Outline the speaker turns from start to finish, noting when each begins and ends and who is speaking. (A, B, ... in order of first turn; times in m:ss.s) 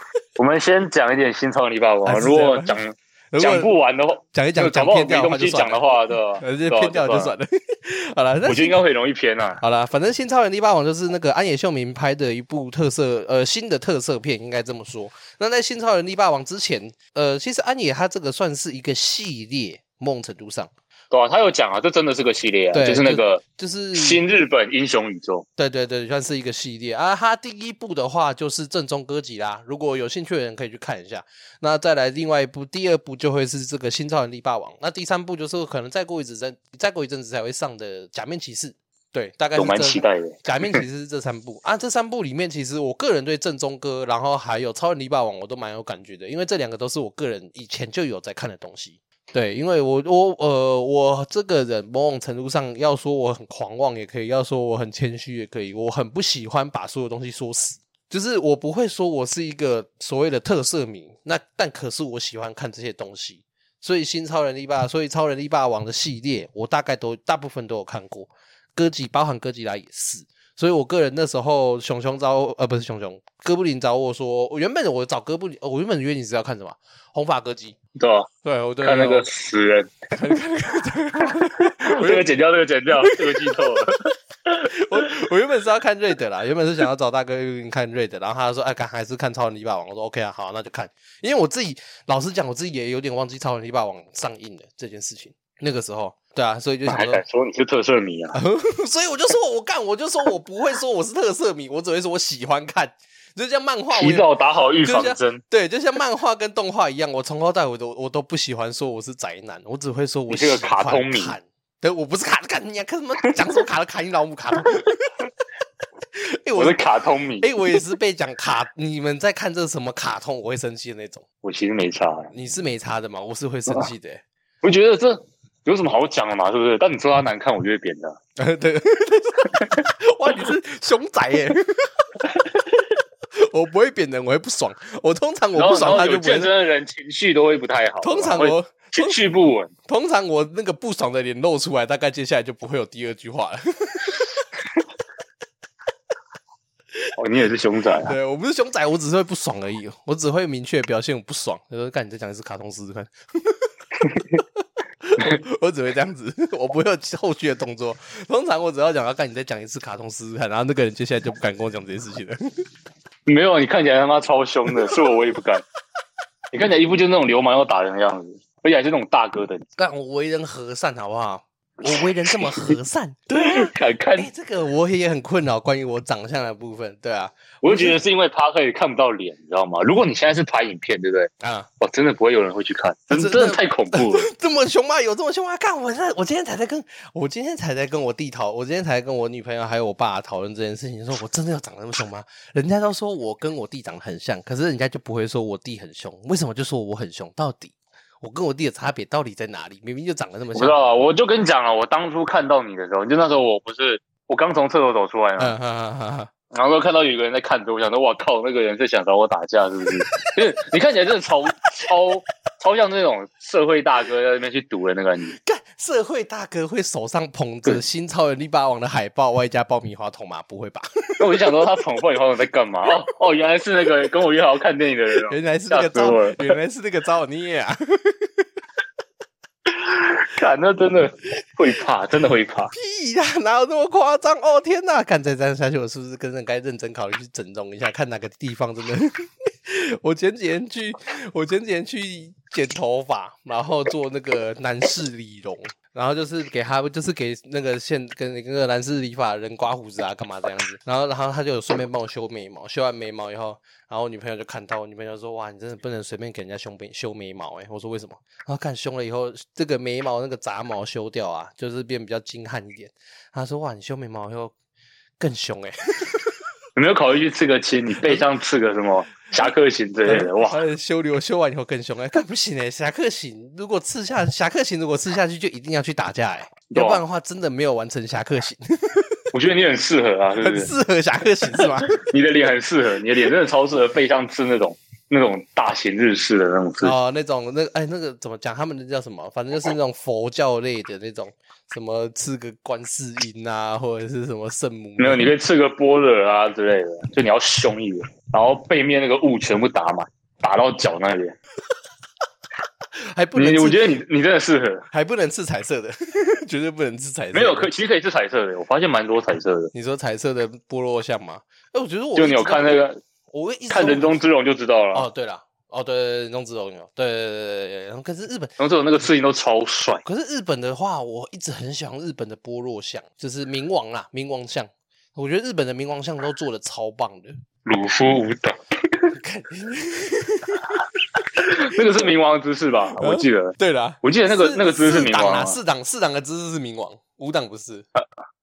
0:00.4-0:07.3 A
0:02.0-0:03.7 B
0:04.3-0:05.9 B
0:06.4-0:08.8 B
0:08.4-0:09.6 A
0:09.6-0:20.7 B
0:21.1-0:23.4 A
0:22.7-0:24.2 B
0:23.9-0:25.5 A
0:25.6-1:17.8 B
0:39.6-0:40.8 A
1:18.0-1:18.3 A
1:18.4-1:19.3 B
1:18.8-1:20.0 A
1:20.1-1:22.3 B
1:21.6-1:24.7 A
1:23.0-1:23.6 B
1:24.7-1:37.2 B
1:36.9-1:38.4 A
1:38.3-1:44.3 B
1:43.9-1:45.4 A
1:44.8-1:55.2 B
1:50.3-1:51.4 A
1:56.2-1:56.8 B
1:56.6-1:57.8 A
1:57.4-2:01.2 B
2:01.4-2:02.3 A
2:02.3-2:04.2 B
2:04.6-2:08.2 A
2:08.4-2:12.1 B
2:13.4-2:16.5 B
2:15.6-2:19.7 A
2:18.0-2:19.2 B
2:19.9-2:24.4 B
2:27.2-2:28.2 A
2:28.0-2:33.7 B
2:34.0-2:34.4 A
2:35.0-2:42.4 B
2:43.3-2:45.6 A
2:46.5-2:49.7 A
2:49.8-2:58.0 B
2:51.9-2:52.5 A
2:53.4-2:54.3 A
2:57.6-3:01.3 A
3:01.4-3:01.7 B
3:01.8-3:04.3 A
3:03.1-3:20.8 B
3:20.5-3:25.6 A
3:25.4-3:26.3 B
3:26.5-3:35.4 A
3:35.3-3:41.5 B
3:41.2-3:46.5 A
3:45.3-3:48.5 B
3:49.7-3:52.7 A
3:52.7-4:24.5 B
4:25.2-4:26.3 B
4:26.8-4:30.6 A
4:30.0-4:39.2 B
4:36.7-4:37.0 A
4:39.3-4:40.7 A
4:40.4-4:42.0 B
4:41.6-4:47.0 A
4:46.8-4:55.3 B
4:55.0-5:01.4 A
5:03.1-5:03.9 B
5:03.4-5:04.9 A
5:04.9-5:07.7 B
5:07.3-5:09.7 A
5:09.7-5:14.2 B
5:12.2-5:13.0 A
5:13.7-5:15.1 A
5:14.9-5:18.5 B
5:18.6-5:20.0 A
5:20.0-5:27.4 B
5:27.6-5:29.1 A
5:29.1-5:30.8 B
5:31.4-5:31.6 B
5:31.4-5:35.6 A
5:33.0-5:37.9 B